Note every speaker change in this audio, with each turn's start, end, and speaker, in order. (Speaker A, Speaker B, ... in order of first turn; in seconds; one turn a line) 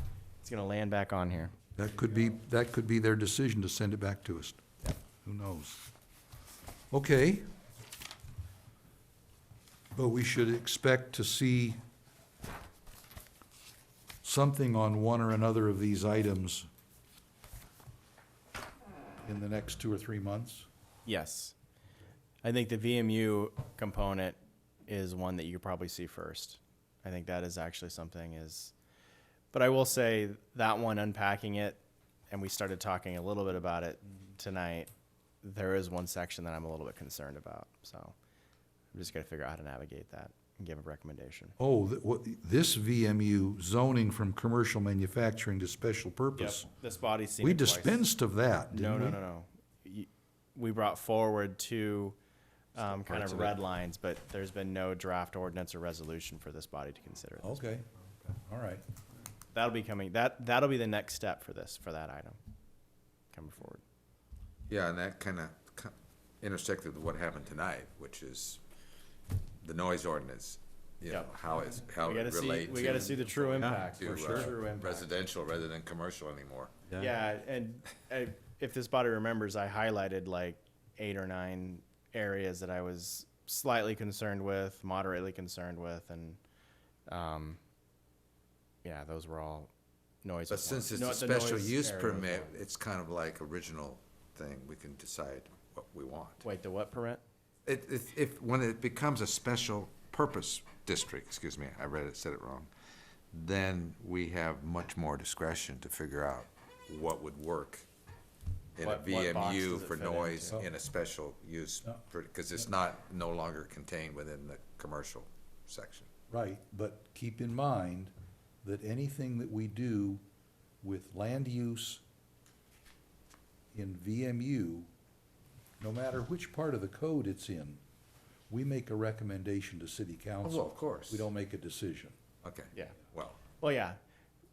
Speaker A: 0.4-1.5
Speaker B: 1.8-4.6
Speaker B: 5.2-5.8
Speaker B: 6.9-7.5
Speaker B: 9.9-11.8
Speaker B: 14.2-16.7
Speaker B: 19.2-20.7
Speaker A: 21.1-21.5
Speaker A: 22.4-28.7
Speaker A: 29.5-31.8
Speaker A: 32.3-34.9
Speaker A: 35.4-38.1
Speaker A: 38.9-41.5
Speaker B: 41.6-46.7
Speaker A: 46.4-48.0
Speaker B: 47.4-49.2
Speaker A: 48.7-52.1
Speaker A: 52.7-57.6
Speaker C: 52.8-53.5
Speaker B: 57.4-57.9
Speaker B: 58.4-58.8
Speaker A: 59.5-62.4
Speaker A: 63.3-63.8
Speaker C: 64.7-68.6
Speaker C: 69.6-76.8
Speaker A: 71.1-75.1
Speaker B: 74.0-74.7
Speaker A: 77.0-86.4
Speaker A: 87.1-87.6
Speaker A: 88.8-89.7
Speaker A: 90.2-92.5
Speaker C: 90.5-96.4
Speaker A: 96.4-97.2
Speaker C: 97.7-102.7
Speaker C: 103.3-107.8
Speaker C: 108.8-116.1
Speaker A: 108.8-110.7
Speaker B: 116.3-118.1
Speaker B: 118.6-120.2
Speaker B: 120.8-122.0
Speaker B: 123.7-124.9
Speaker B: 125.8-127.8
Speaker B: 128.5-132.2
Speaker C: 130.4-131.3
Speaker C: 132.4-133.4
Speaker A: 133.6-134.0